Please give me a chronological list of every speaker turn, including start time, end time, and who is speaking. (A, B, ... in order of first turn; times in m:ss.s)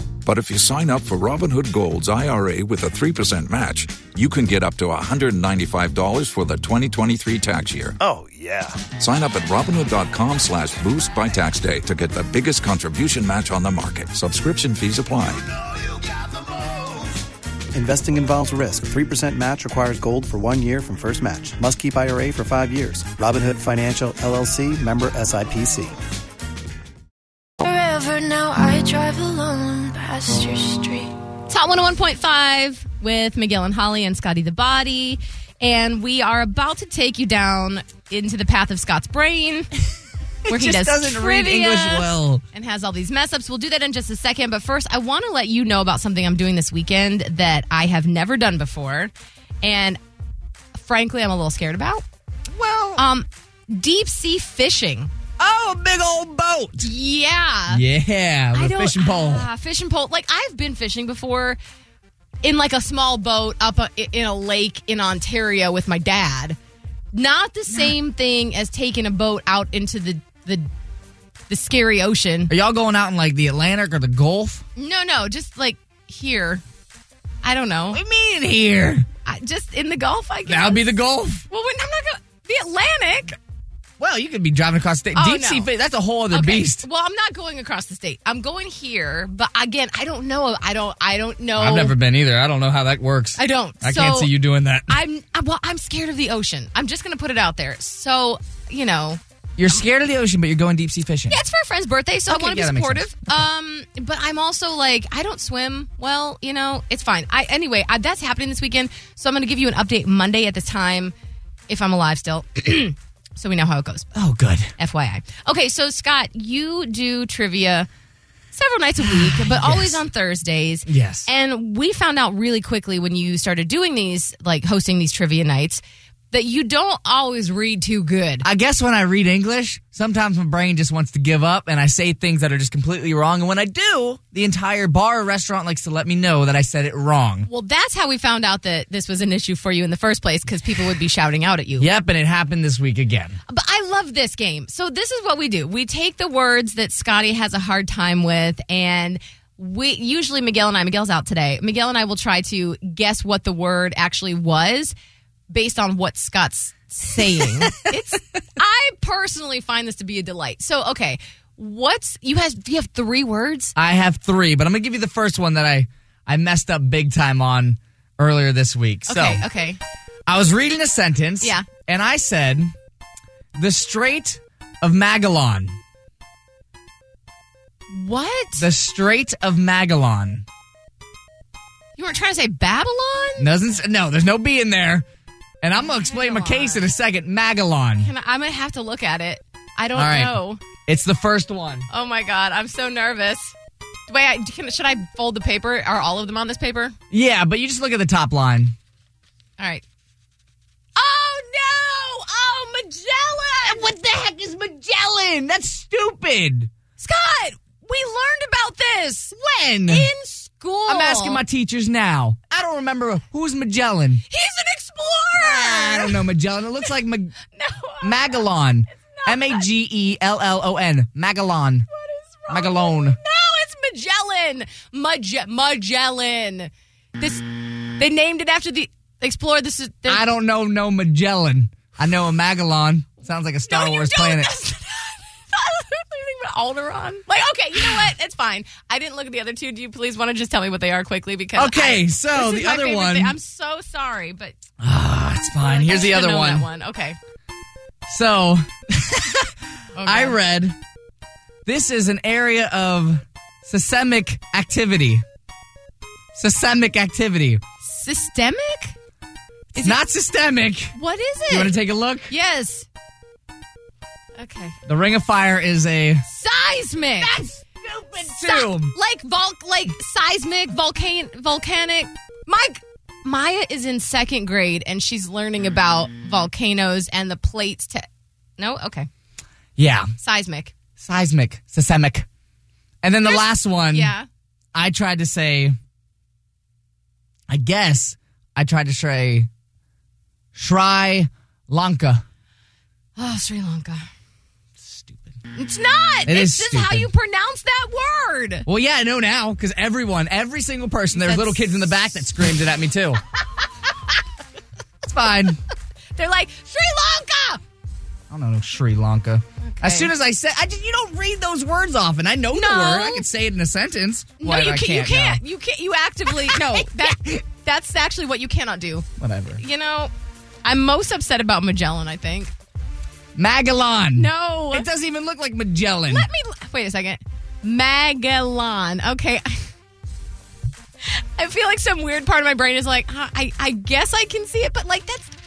0:00.3-0:08.0 A
0:08.0-0:08.8 B
0:08.9-0:15.5 A
0:17.7-0:26.0 B
0:27.6-0:31.1 C
0:31.5-0:39.7 D
0:40.5-0:42.4 E
0:40.5-0:50.0 D
0:50.8-0:52.0 D
0:52.5-0:53.0 E
0:53.0-0:55.1 D
0:55.4-0:56.9 E
0:56.8-0:57.8 D
0:57.7-0:59.5 E
0:58.5-1:01.6 D
1:02.4-1:06.6 D
1:07.1-1:10.7 D
1:11.5-1:12.5 D
1:12.5-1:14.6 E
1:14.8-1:16.6 D
1:17.4-1:18.0 D
1:17.9-1:19.1 E
1:19.2-1:21.0 D
1:20.5-1:21.4 E
1:21.5-1:23.4 D
1:24.0-1:26.8 E
1:25.2-1:25.7 D
1:26.3-1:32.0 D
1:31.6-1:35.0 E
1:33.4-1:34.3 D
1:34.9-1:39.2 D
1:39.6-1:41.4 E
1:41.3-1:51.1 D
1:42.3-1:43.4 E
1:51.7-1:54.1 D
1:54.2-1:54.7 E
1:54.8-1:57.9 D
1:58.5-2:08.5 D
1:59.1-2:00.0 E
2:00.9-2:01.3 E
2:08.4-2:17.5 E
2:17.5-2:21.9 D
2:21.8-2:23.4 E
2:23.5-2:35.0 D
2:35.5-2:43.7 D
2:43.8-2:49.4 E
2:49.1-2:49.8 D
2:50.3-2:52.7 E
2:51.4-2:51.7 D
2:53.6-2:55.8 E
2:57.9-2:58.7 D
2:58.6-3:00.4 E
3:02.0-3:03.5 D
3:03.4-3:05.0 E
3:05.6-3:08.1 E
3:05.8-3:06.9 D
3:08.0-3:10.6 D
3:10.0-3:11.9 E
3:11.9-3:13.5 D
3:14.1-3:17.0 D
3:17.1-3:18.7 E
3:19.6-3:19.8 D
3:21.0-3:24.0 D
3:23.6-3:26.7 E
3:27.0-3:29.3 D
3:29.3-3:30.1 E
3:29.9-3:31.4 D
3:30.9-3:34.2 E
3:34.3-3:36.3 D
3:35.3-3:37.4 E
3:37.5-3:39.7 D
3:38.0-3:41.9 E
3:41.9-3:50.3 D
3:42.5-3:43.2 E
3:50.1-3:54.5 E
3:53.7-4:04.6 D
4:01.6-4:03.4 E
4:04.8-4:06.7 E
4:05.6-4:07.2 D
4:08.1-4:10.8 E
4:10.0-4:10.4 D
4:11.6-4:15.2 E
4:16.4-4:17.6 E
4:17.8-4:19.0 D
4:19.8-4:20.0 D
4:19.8-4:21.0 E
4:20.9-4:21.8 D
4:21.5-4:22.3 E
4:22.3-4:22.9 D
4:24.4-4:24.8 D
4:24.9-4:26.2 E
4:26.3-4:27.4 D
4:27.2-4:29.0 E
4:28.2-4:38.1 D
4:38.6-4:39.1 D
4:39.8-4:40.1 E
4:40.2-4:40.7 D
4:41.0-4:42.3 E
4:43.0-4:44.1 E
4:43.2-4:44.3 D
4:44.7-4:45.8 E
4:47.5-4:49.5 E
4:50.6-4:52.2 E
4:53.2-4:54.0 D
4:54.8-4:55.3 E
4:55.5-4:58.6 D
4:56.3-4:57.1 E
4:58.7-5:03.2 E
5:01.1-5:02.0 D
5:05.0-5:05.6 E
5:06.2-5:07.6 D
5:08.3-5:15.4 E
5:09.6-5:10.1 D
5:12.5-5:13.2 D
5:14.4-5:20.1 D
5:16.5-5:17.4 E
5:19.2-5:19.6 E
5:20.6-5:22.5 D
5:23.4-5:26.3 E
5:24.2-5:24.9 D
5:26.1-5:29.7 D
5:31.0-5:35.3 D